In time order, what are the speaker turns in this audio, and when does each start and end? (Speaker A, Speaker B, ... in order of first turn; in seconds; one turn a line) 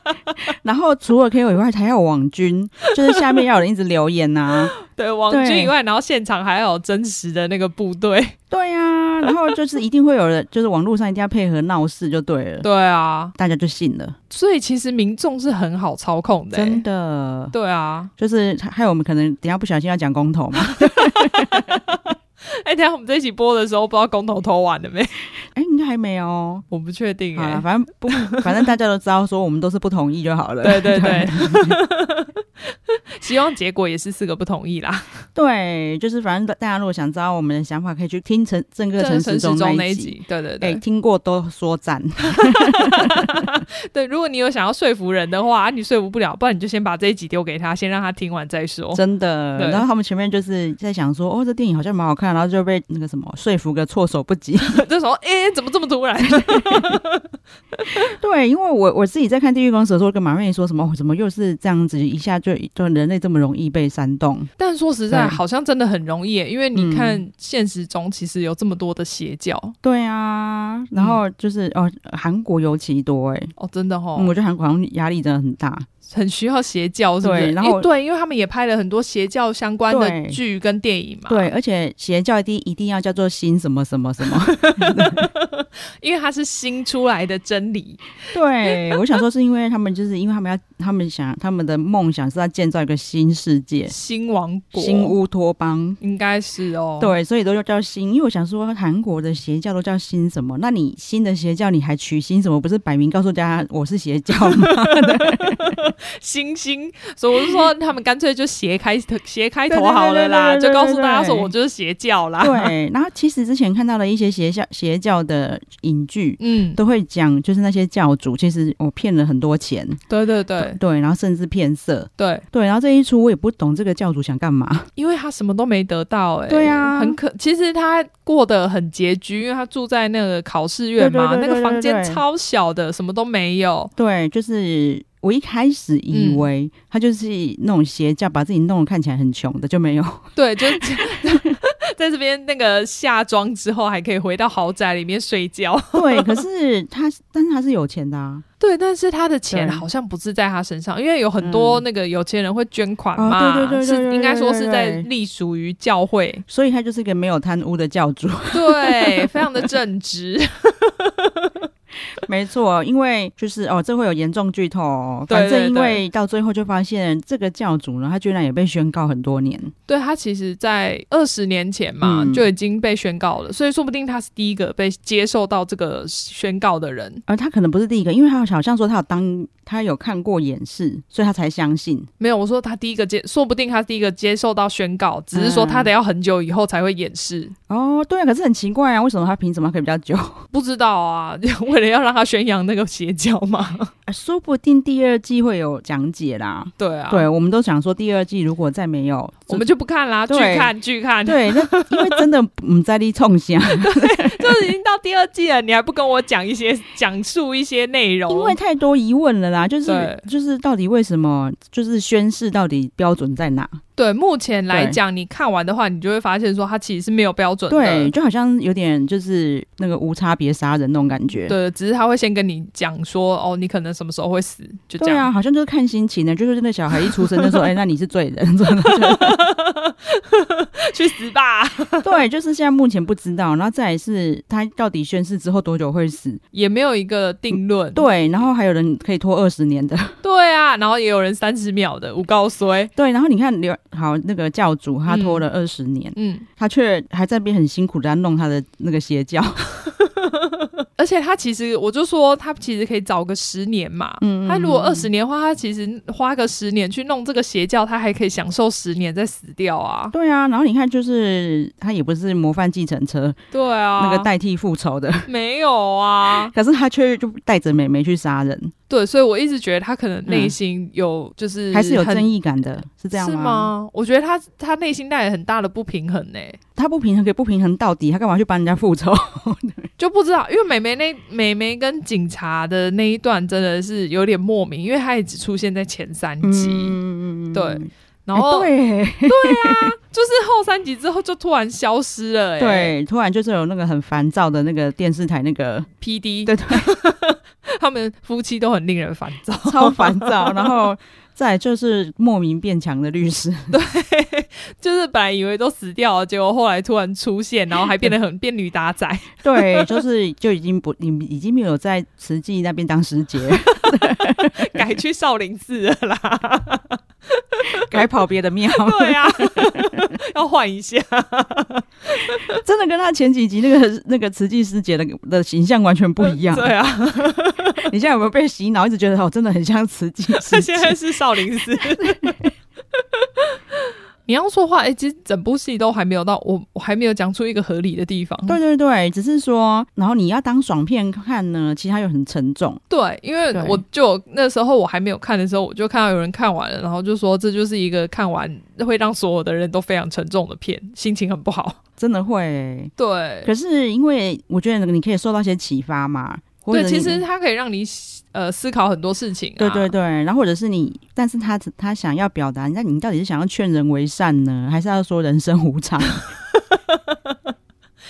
Speaker A: 0.6-4.7
Speaker B: 4.8-8.3
Speaker A: 5.3-5.7
Speaker A: 8.5-12.7
Speaker B: 12.6-13.3
Speaker A: 13.4-14.2
Speaker B: 14.3-16.8
Speaker A: 16.5-17.5
Speaker B: 17.5-18.1
Speaker A: 18.2-21.8
Speaker B: 20.6-25.2
Speaker A: 25.5-26.6
Speaker B: 26.7-28.6
Speaker A: 27.4-31.8
Speaker B: 30.6-35.2
Speaker A: 35.4-43.5
Speaker B: 39.0-40.8
Speaker B: 42.2-49.0
Speaker A: 49.0-54.8
Speaker B: 49.6-49.8
Speaker B: 54.6-58.1
Speaker A: 56.5-57.0
Speaker A: 58.0-64.5
Speaker B: 64.6-69.7
Speaker A: 65.1-65.4
Speaker A: 66.7-67.2
Speaker A: 69.8-73.5
Speaker B: 73.6-74.3
Speaker A: 74.2-75.9
Speaker B: 76.1-81.5
Speaker A: 77.2-77.9
Speaker A: 79.9-80.4
Speaker A: 81.3-85.3
Speaker B: 84.3-89.0
Speaker A: 88.3-93.9
Speaker B: 93.9-95.2
Speaker A: 94.8-96.0
Speaker B: 96.0-97.2
Speaker A: 97.0-105.8
Speaker B: 104.5-112.7
Speaker A: 109.7-111.5
Speaker A: 112.4-120.0
Speaker B: 116.4-116.8
Speaker B: 120.1-120.8
Speaker A: 120.6-124.9
Speaker B: 122.2-122.4
Speaker B: 125.0-133.9
Speaker A: 126.5-127.2
Speaker A: 131.0-132.2
Speaker A: 134.0-141.5
Speaker B: 136.1-136.4
Speaker B: 140.4-146.4
Speaker A: 145.9-148.4
Speaker B: 148.6-156.4
Speaker A: 149.5-149.8
Speaker A: 151.4-151.8
Speaker A: 153.2-155.1
Speaker A: 156.5-159.7
Speaker B: 158.5-161.5
Speaker A: 162.2-169.7
Speaker B: 165.3-166.0
Speaker B: 169.9-177.2
Speaker A: 172.0-172.5
Speaker A: 177.3-182.1
Speaker B: 182.2-187.5
Speaker A: 185.3-185.9
Speaker A: 187.7-190.4
Speaker B: 190.5-193.9
Speaker A: 194.1-199.7
Speaker B: 196.8-197.3
Speaker B: 199.5-202.3
Speaker A: 200.3-200.7
Speaker A: 201.2-204.7
Speaker B: 203.8-208.6
Speaker A: 208.3-213.8
Speaker B: 209.9-210.2
Speaker B: 214.0-218.1
Speaker A: 214.7-215.0
Speaker A: 217.7-221.6
Speaker B: 221.5-225.3
Speaker A: 225.0-229.4
Speaker B: 227.0-227.6
Speaker B: 228.9-232.2
Speaker A: 232.0-236.4
Speaker B: 236.5-238.1
Speaker A: 237.5-240.2
Speaker B: 240.2-242.9
Speaker A: 242.9-249.7
Speaker B: 245.1-245.4
Speaker B: 246.2-246.5
Speaker B: 250.2-260.1
Speaker A: 254.2-255.1
Speaker A: 260.1-263.4
Speaker B: 263.5-264.3
Speaker A: 264.0-265.3
Speaker B: 265.3-266.5
Speaker A: 266.5-268.7
Speaker B: 268.9-272.3
Speaker A: 270.3-270.6
Speaker A: 271.7-273.7
Speaker B: 273.1-276.6
Speaker A: 276.8-279.9
Speaker B: 280.0-287.0
Speaker A: 286.4-289.9
Speaker B: 287.5-288.7
Speaker B: 289.3-292.9
Speaker A: 292.6-295.9
Speaker B: 296.0-300.7
Speaker A: 296.5-296.9
Speaker A: 299.6-303.7
Speaker B: 303.7-310.0
Speaker A: 309.4-314.8
Speaker B: 313.7-317.9
Speaker A: 317.8-319.9
Speaker B: 318.7-322.6
Speaker A: 322.6-326.7
Speaker B: 326.2-327.9
Speaker A: 327.9-331.0
Speaker B: 330.4-332.3
Speaker A: 331.7-332.5
Speaker B: 333.2-333.6
Speaker B: 334.3-338.6
Speaker A: 338.5-342.8
Speaker B: 342.9-351.8
Speaker A: 343.5-343.8
Speaker A: 352.0-352.9
Speaker B: 353.0-353.5
Speaker A: 353.4-357.2
Speaker B: 356.7-359.9
Speaker A: 359.6-366.2
Speaker B: 366.7-367.4